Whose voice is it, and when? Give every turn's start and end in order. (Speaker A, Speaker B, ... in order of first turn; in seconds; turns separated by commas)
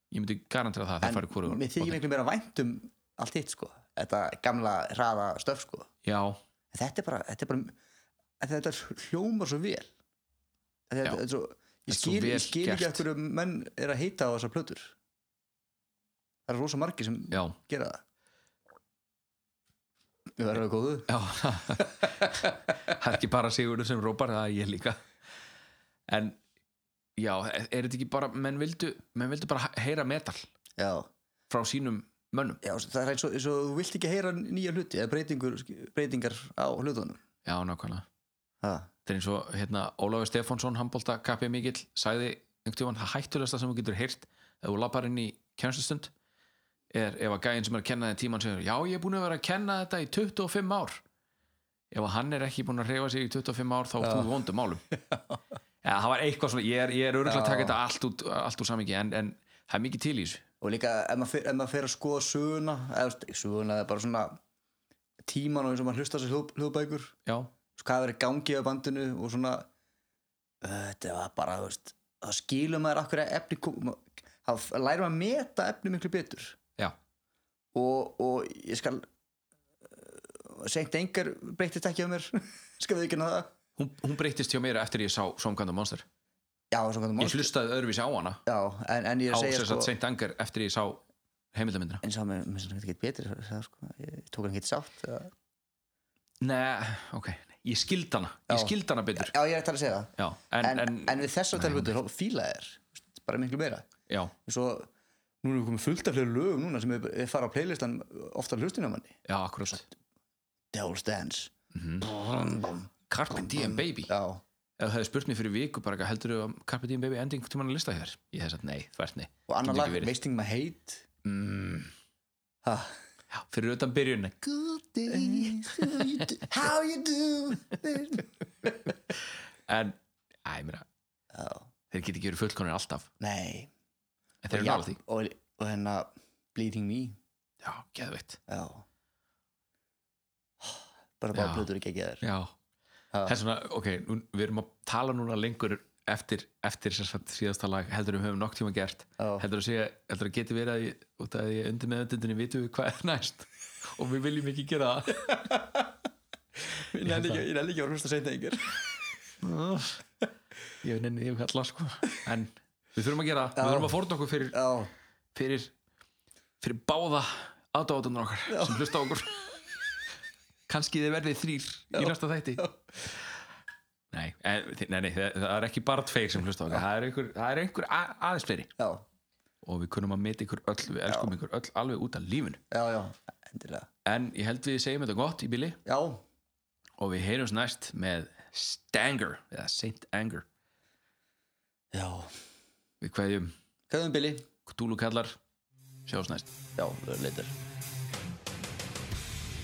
Speaker A: 0.1-2.0, Speaker B: 1.0-5.9, Speaker A: 6.0-6.4, Speaker B: 6.7-7.7, Speaker B: 8.4-9.9, Speaker B: 10.9-14.9, Speaker A: 11.9-13.0, Speaker B: 16.5-18.0, Speaker A: 17.3-17.6, Speaker B: 20.4-21.1, Speaker A: 21.1-25.0, Speaker B: 21.8-22.5, Speaker A: 26.1-26.4, Speaker A: 27.2-30.4, Speaker B: 30.8-31.1, Speaker A: 31.5-32.6, Speaker B: 32.6-37.2, Speaker A: 37.5-38.0, Speaker B: 38.6-38.9, Speaker A: 39.0-46.1, Speaker A: 46.9-51.0, Speaker A: 51.9-54.8, Speaker B: 54.0-54.3, Speaker B: 54.9-55.4, Speaker A: 55.8-60.4, Speaker B: 57.2-57.8, Speaker B: 60.6-64.4, Speaker B: 65.2-67.1, Speaker A: 67.2-67.5, Speaker B: 67.8-69.7, Speaker B: 70.6-76.6, Speaker B: 77.7-79.0, Speaker B: 79.9-83.5, Speaker A: 83.8-86.0, Speaker B: 86.7-87.5, Speaker A: 87.2-88.4, Speaker B: 88.5-89.9, Speaker A: 89.3-92.0, Speaker B: 92.0-95.3, Speaker A: 96.4-99.3, Speaker B: 98.5-103.9, Speaker A: 100.2-101.9, Speaker A: 104.1-104.3, Speaker B: 104.4-104.9, Speaker B: 105.4-109.2, Speaker A: 109.2-109.9, Speaker B: 110.7-114.4, Speaker A: 111.7-112.2, Speaker A: 113.1-114.1, Speaker A: 114.8-120.1, Speaker B: 119.5-121.1, Speaker A: 121.2-121.9, Speaker B: 122.6-123.0, Speaker A: 123.3-126.4, Speaker B: 125.0-128.7, Speaker A: 129.7-130.9, Speaker B: 131.3-131.7, Speaker A: 131.9-133.1, Speaker B: 133.2-133.7, Speaker A: 134.4-135.0, Speaker B: 134.5-137.2, Speaker A: 137.6-138.4, Speaker B: 138.5-138.8, Speaker B: 140.6-142.2, Speaker A: 141.3-141.7, Speaker A: 142.2-142.5, Speaker B: 143.1-143.4, Speaker A: 143.2-155.5, Speaker B: 149.2-149.4, Speaker B: 155.4-155.8, Speaker B: 156.9-159.0, Speaker A: 157.0-157.4, Speaker A: 159.4-160.0, Speaker A: 160.8-164.6, Speaker B: 163.5-164.9, Speaker A: 165.3-165.7, Speaker A: 166.6-169.6, Speaker B: 168.5-168.9, Speaker A: 170.7-172.7, Speaker B: 171.9-172.7, Speaker A: 174.1-178.7, Speaker B: 178.8-179.0, Speaker A: 179.6-182.6, Speaker B: 182.7-183.9, Speaker A: 184.0-185.8, Speaker B: 185.8-186.2, Speaker A: 187.0-190.4, Speaker B: 191.9-192.3, Speaker A: 193.0-193.5, Speaker B: 193.9-194.5, Speaker A: 194.7-195.4, Speaker A: 196.1-196.5, Speaker B: 196.8-197.5